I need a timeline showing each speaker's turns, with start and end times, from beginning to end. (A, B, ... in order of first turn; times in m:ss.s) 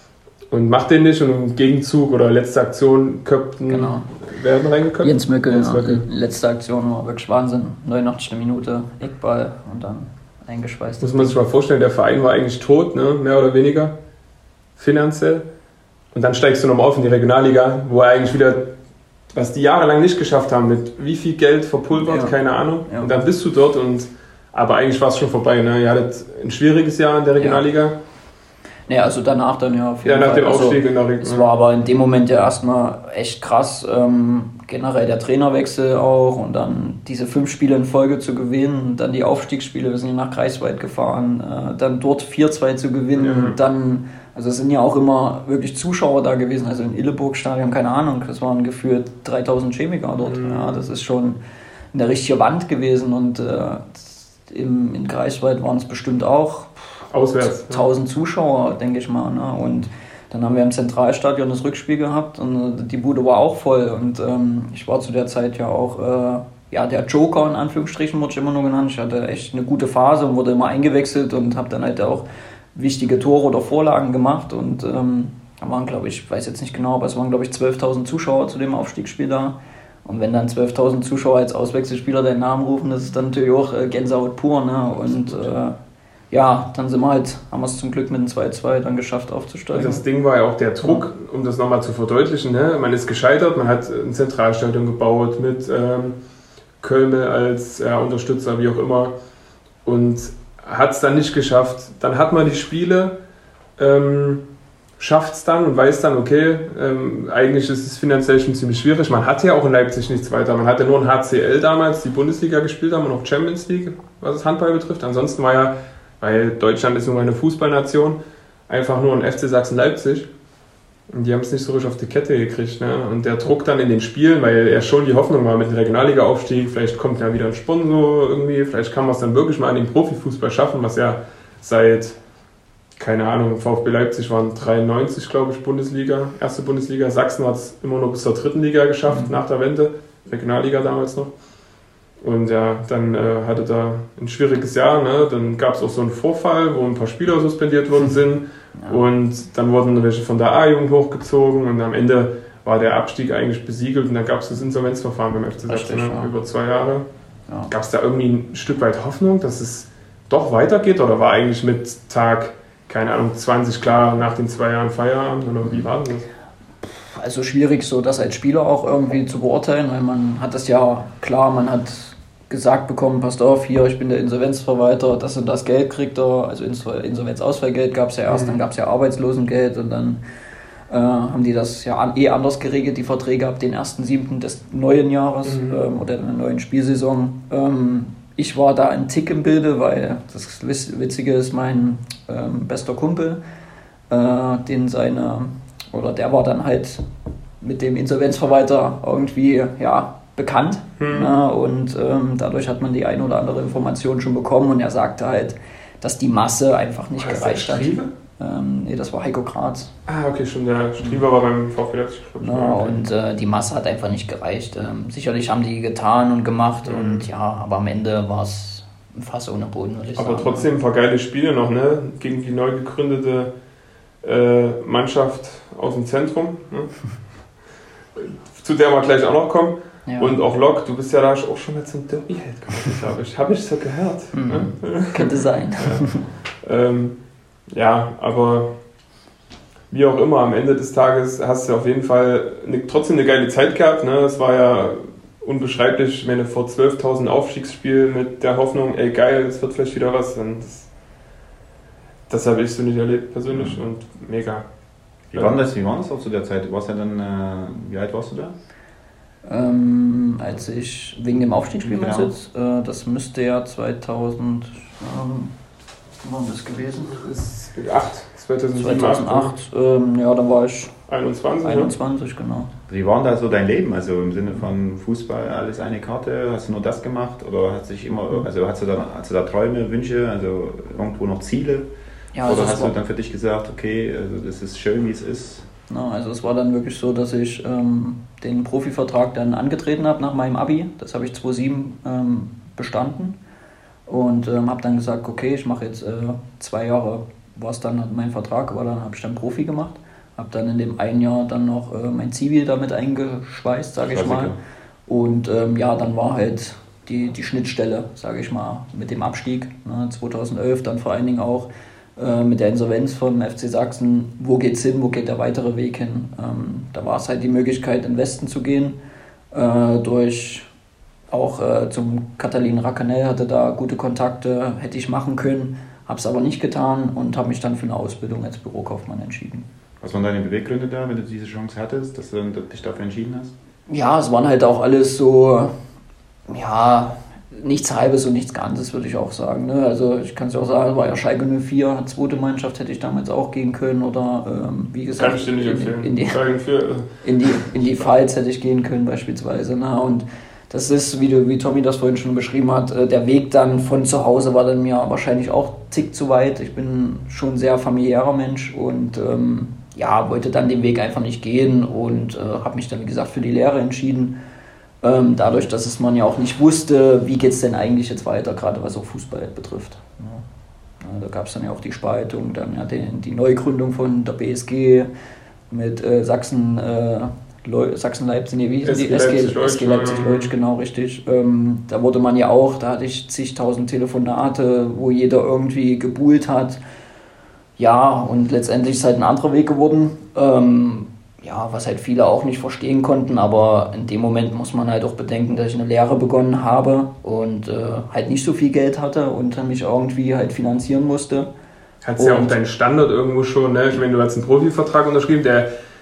0:00.5-0:06.0 A
0:03.7-0:04.1 B
0:05.0-0:11.3 B
0:11.0-0:13.9 A
0:14.8-0:15.4 A
0:16.1-0:18.7 A
0:19.3-0:27.9 A
0:22.0-0:22.3 B
0:27.4-0:27.6 B
0:28.9-0:51.4 B
0:30.0-0:31.5 A
0:43.2-0:43.6 A
0:50.2-0:50.8 A
0:51.9-0:56.9 B
0:57.1-0:57.8 A
0:57.4-1:25.8 B
1:25.0-1:25.5 A
1:26.3-1:30.0 B
1:29.7-1:36.2 A
1:36.8-1:39.1 A
1:39.8-1:43.2 A
1:43.8-1:44.4 A
1:45.0-2:00.3 A
2:01.1-2:12.2 A
2:13.0-2:21.3 A
2:19.1-2:19.3 B
2:22.2-2:37.0 A
2:35.7-2:36.3 B
2:37.7-2:46.3 A
2:45.6-2:45.9 B
2:46.8-3:00.2 B
2:58.3-2:58.6 A
3:00.9-3:13.4 B
3:05.4-3:05.8 A
3:14.1-3:17.0 B
3:17.6-3:29.9 B
3:21.0-3:21.3 A
3:27.2-3:28.1 A
3:30.1-3:33.0 A
3:32.4-3:40.7 B
3:36.8-3:37.3 A
3:40.2-3:43.5 A
3:44.2-3:47.1 A
3:48.2-3:57.2 A
3:50.0-3:50.4 B
3:54.3-3:56.2 B
3:57.7-3:58.7 A
3:59.9-4:10.9 A
4:12.3-4:14.6 A
4:13.5-4:13.8 C
4:15.3-4:18.5 C
4:19.4-4:25.5 B
4:21.8-4:22.3 C
4:26.2-4:27.2 B
4:27.2-4:29.5 A
4:28.8-4:30.9 B
4:31.1-4:31.9 A
4:31.6-4:32.7 B
4:32.9-4:41.9 C
4:42.3-4:42.9 B
4:42.4-4:45.6 C
4:45.9-4:53.4 B
4:54.1-5:04.5 B
5:04.0-5:04.6 C
5:05.1-5:19.0 B
5:19.5-5:20.7 B
5:21.3-5:29.6 B
5:30.0-5:33.5 C
5:33.9-5:35.7 B
5:36.5-5:46.4 B
5:45.2-5:47.1 A
5:47.2-6:04.4 B
6:05.0-6:10.4 B
6:11.0-6:15.1 B
6:15.7-6:26.8 B
6:18.8-6:20.5 A
6:27.8-6:41.5 B
6:42.0-6:45.7 A
6:42.2-6:42.6 B